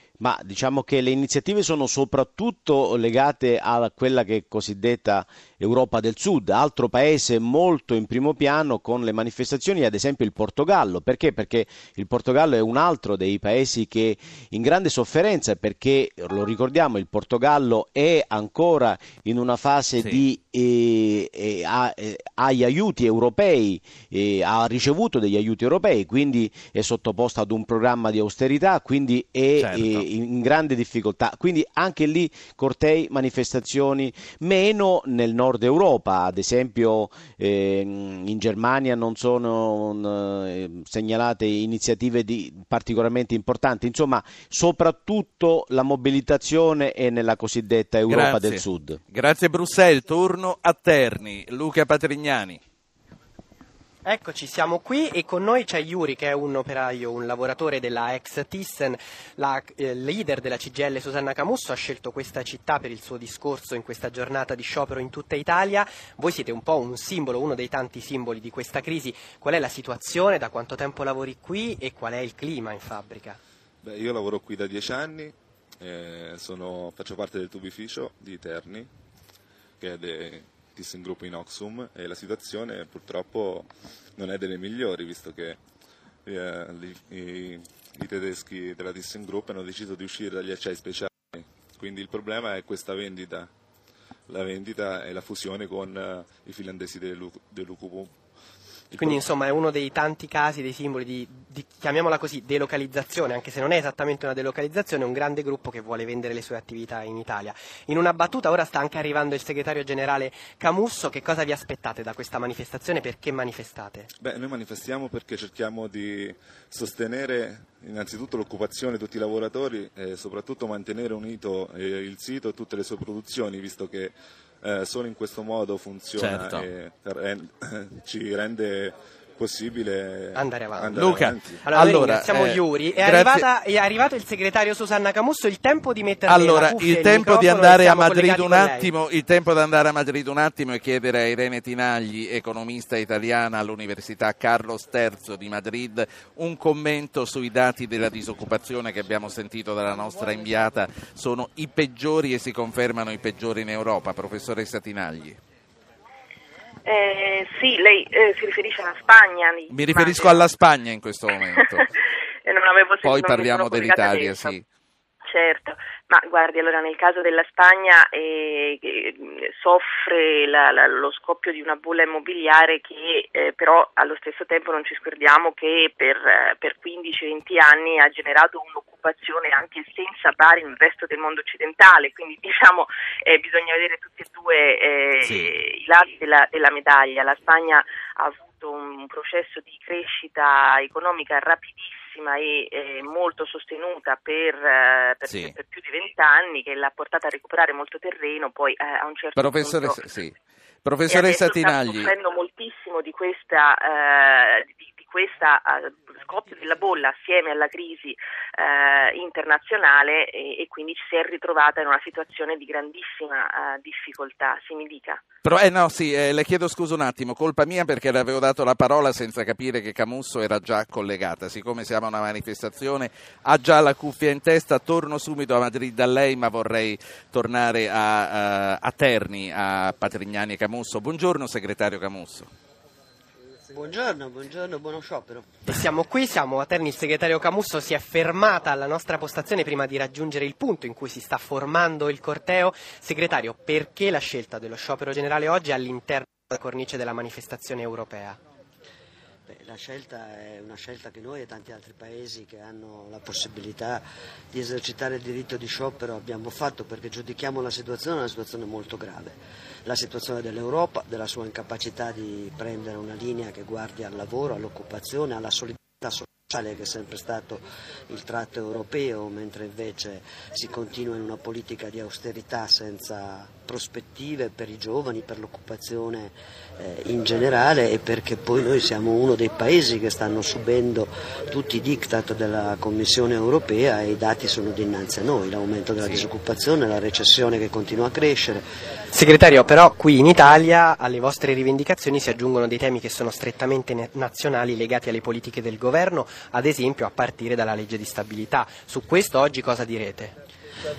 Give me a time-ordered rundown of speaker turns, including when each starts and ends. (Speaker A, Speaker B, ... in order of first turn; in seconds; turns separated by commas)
Speaker A: 0.2-49.0, Speaker B: 29.6-30.1, Speaker B: 48.1-52.6, Speaker C: 54.0-73.4, Speaker D: 73.8-78.9, Speaker D: 79.8-85.6, Speaker D: 86.2-93.5, Speaker D: 94.3-98.2, Speaker D: 98.9-99.2, Speaker C: 99.0-114.1, Speaker D: 114.2-132.1, Speaker B: 126.2-126.7, Speaker C: 130.3-131.0, Speaker B: 130.9-133.5, Speaker C: 131.6-138.9, Speaker B: 136.3-155.4, Speaker E: 156.8-160.5, Speaker B: 159.7-161.9, Speaker E: 162.4-164.6, Speaker B: 163.0-164.6, Speaker E: 165.3-200.0, Speaker B: 185.2-185.5, Speaker B: 195.2-195.6, Speaker B: 199.4-202.1, Speaker E: 201.1-215.2, Speaker B: 215.4-232.5, Speaker F: 233.7-235.6, Speaker C: 235.7-248.4, Speaker F: 249.5-288.7, Speaker B: 286.0-286.2, Speaker C: 289.1-300.4